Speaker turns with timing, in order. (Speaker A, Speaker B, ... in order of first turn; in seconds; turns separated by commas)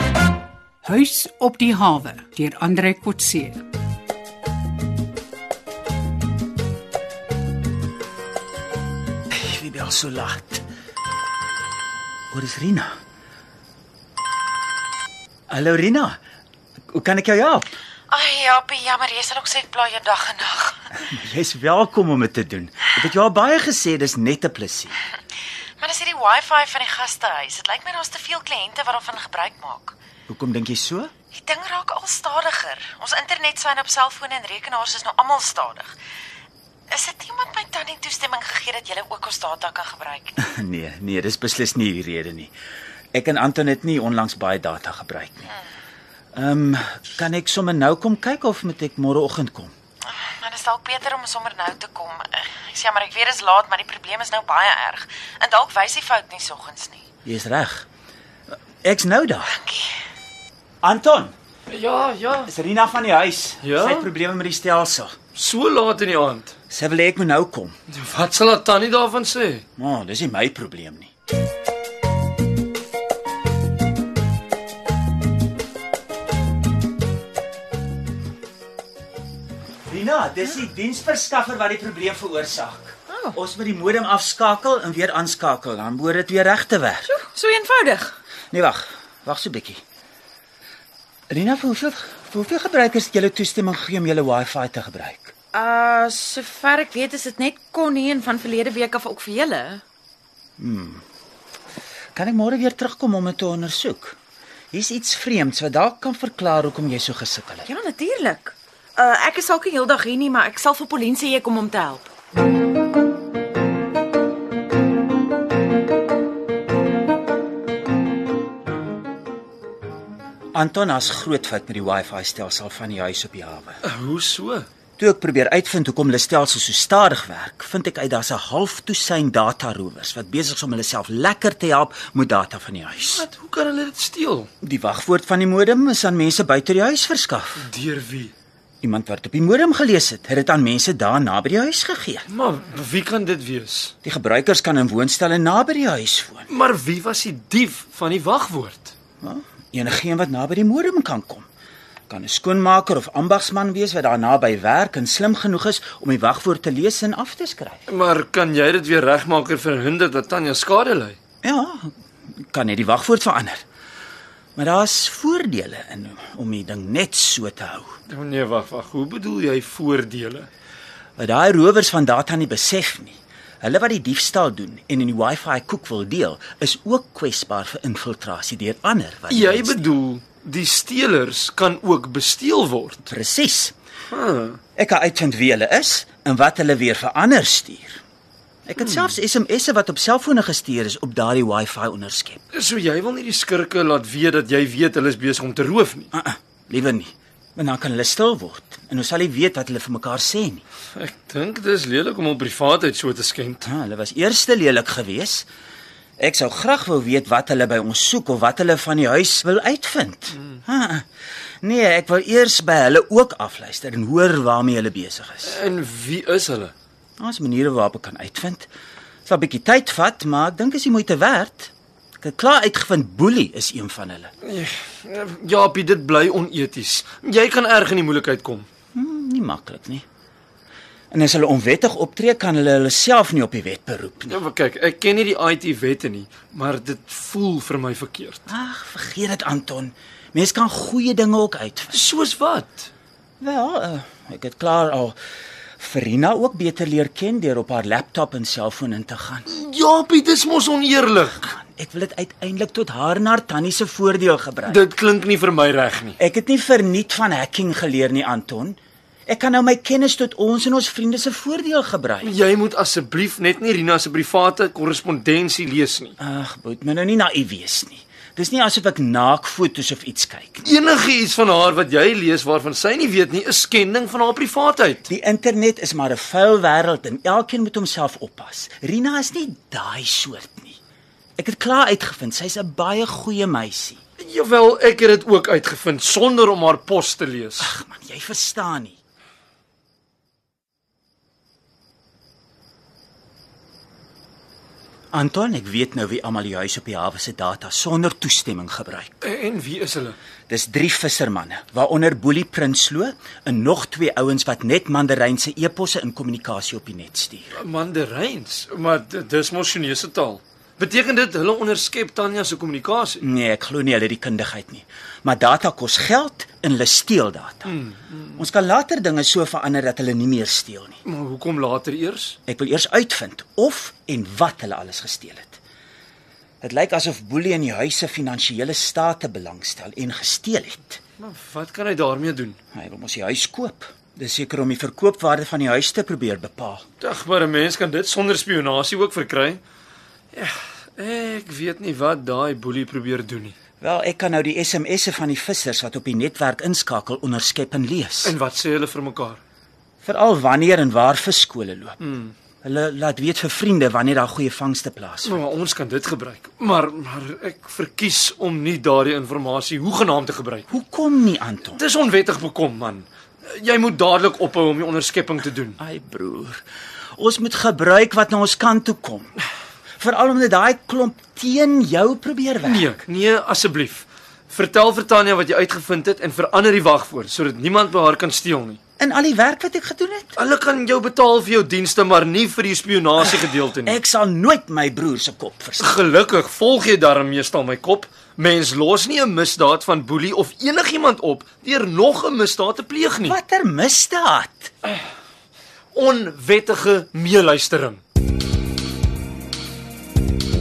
Speaker A: 0.8-3.6, Speaker B: 9.3-10.6, Speaker B: 12.3-12.9, Speaker B: 15.5-16.2, Speaker B: 16.9-17.7, Speaker C: 18.1-20.9, Speaker B: 20.9-25.0, Speaker C: 25.8-29.9, Speaker B: 30.3-31.1, Speaker C: 31.3-36.0, Speaker C: 36.9-40.4, Speaker B: 40.4-42.5, Speaker B: 43.1-45.5, Speaker B: 46.3-49.7, Speaker C: 50.1-57.0, Speaker B: 57.2-57.9, Speaker B: 58.8-59.6, Speaker C: 59.5-59.9, Speaker B: 60.8-61.3, Speaker D: 61.7-62.5, Speaker B: 62.5-65.1, Speaker D: 63.6-64.1, Speaker D: 65.3-66.5, Speaker B: 66.7-67.8, Speaker D: 67.9-69.6, Speaker B: 69.8-71.1, Speaker B: 79.9-87.1, Speaker C: 83.1-83.3, Speaker C: 87.0-88.2, Speaker B: 88.5-89.8, Speaker B: 91.3-95.3, Speaker C: 95.5-99.8, Speaker B: 100.6-101.0, Speaker B: 102.1-104.2, Speaker B: 104.7-107.7, Speaker C: 107.7-112.1, Speaker B: 120.5-123.8, Speaker D: 123.8-124.7, Speaker B: 125.0-133.2, Speaker D: 133.1-134.5, Speaker B: 134.6-137.7, Speaker D: 137.6-138.3, Speaker B: 138.8-142.3, Speaker D: 142.3-143.9, Speaker B: 144.0-146.5, Speaker D: 146.5-148.9, Speaker B: 149.2-151.5, Speaker B: 152.1-157.8, Speaker D: 157.9-161.2, Speaker B: 161.4-163.6, Speaker B: 164.6-167.9, Speaker D: 168.1-170.5, Speaker B: 171.2-179.8, Speaker D: 179.3-183.1, Speaker B: 183.1-183.7, Speaker D: 184.1-184.6, Speaker B: 184.8-188.0, Speaker B: 188.7-192.4, Speaker D: 192.5-196.1, Speaker B: 196.1-200.6, Speaker D: 200.9-203.7, Speaker B: 203.6-205.5, Speaker B: 206.2-211.0, Speaker B: 211.6-215.6, Speaker D: 215.4-216.7, Speaker B: 217.2-218.7, Speaker B: 219.2-224.3, Speaker D: 224.4-228.7, Speaker B: 228.9-230.0, Speaker B: 231.1-234.4, Speaker D: 234.3-238.4, Speaker B: 238.5-242.1, Speaker D: 241.9-242.9, Speaker B: 243.4-245.2, Speaker B: 245.8-249.4, Speaker D: 249.5-251.4, Speaker B: 251.4-254.8, Speaker D: 254.6-256.2, Speaker B: 256.2-262.3, Speaker D: 262.2-266.1, Speaker B: 266.2-270.7, Speaker D: 270.6-275.1, Speaker B: 275.1-280.8, Speaker B: 281.4-284.0, Speaker D: 284.2-287.7, Speaker B: 287.6-289.0, Speaker B: 295.1-299.2, Speaker D: 299.2-300.1, Speaker B: 300.5-307.5, Speaker D: 307.5-313.2, Speaker B: 313.2-317.7, Speaker D: 317.7-318.4, Speaker B: 318.4-321.0, Speaker D: 321.0-322.4, Speaker B: 322.5-325.6, Speaker B: 326.6-331.0, Speaker D: 331.2-332.6, Speaker B: 332.7-336.9, Speaker D: 337.0-339.6, Speaker D: 340.3-343.5, Speaker B: 343.8-348.3, Speaker D: 348.2-349.4, Speaker B: 350.0-352.0, Speaker D: 352.0-352.3, Speaker B: 352.6-355.4, Speaker D: 355.2-360.6, Speaker B: 360.7-361.8, Speaker D: 361.8-365.8, Speaker B: 365.8-366.6, Speaker B: 367.1-369.3, Speaker B: 370.0-372.9, Speaker D: 372.6-378.8, Speaker B: 379.0-380.4, Speaker D: 380.4-384.0, Speaker B: 383.2-385.9, Speaker D: 385.8-393.4, Speaker B: 393.2-394.7, Speaker D: 395.9-398.0